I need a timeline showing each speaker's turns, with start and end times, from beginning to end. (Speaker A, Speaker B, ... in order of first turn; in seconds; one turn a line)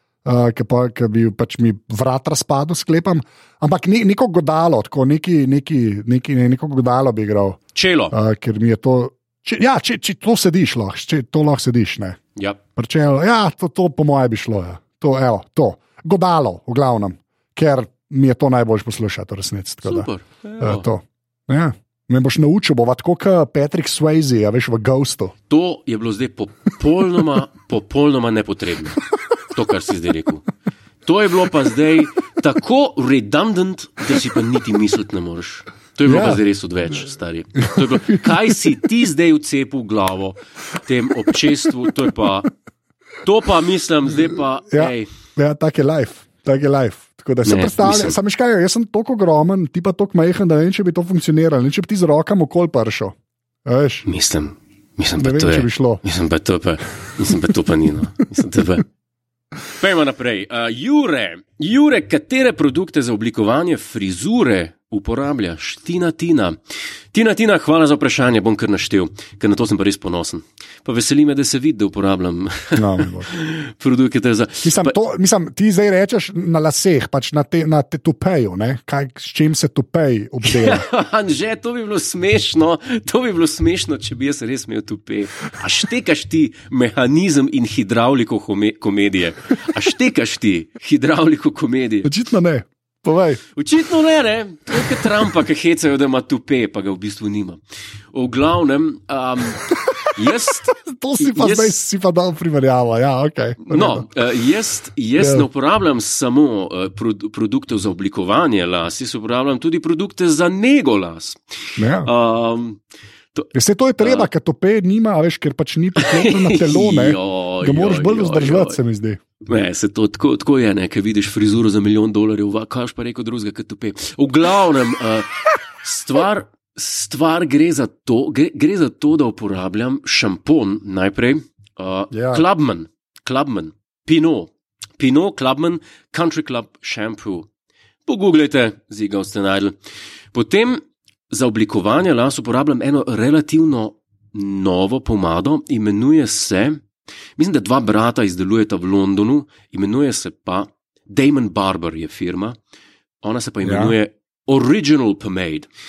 Speaker A: 0.2-7.6
Speaker B: 7.7-8.2
Speaker A: 8.1-12.2
Speaker A: 12.8-20.1
Speaker B: 19.9-20.9
Speaker A: 20.6-25.3
Speaker B: 25.5-30.5
Speaker B: 31.0-42.5
Speaker A: 36.0-36.4
Speaker A: 37.7-38.3
Speaker B: 43.2-45.1
Speaker A: 44.7-54.0
Speaker B: 47.4-48.2
Speaker B: 54.0-58.8
Speaker A: 55.2-56.0
Speaker B: 59.7-66.6
Speaker B: 67.1-75.0
Speaker A: 72.8-73.3
Speaker A: 74.6-80.8
Speaker B: 80.4-92.1
Speaker A: 92.0-93.4
Speaker B: 93.5-97.6
Speaker B: 98.1-101.7
Speaker A: 100.0-104.1
Speaker B: 103.6-112.8
Speaker A: 105.2-105.5
Speaker A: 111.8-112.1
Speaker B: 113.3-114.3
Speaker A: 113.5-119.2
Speaker B: 116.0-118.8
Speaker B: 119.5-137.5
Speaker A: 132.1-132.4
Speaker B: 138.1-139.8
Speaker B: 140.3-146.8
Speaker B: 147.4-152.6
Speaker B: 153.2-155.7
Speaker A: 153.6-153.9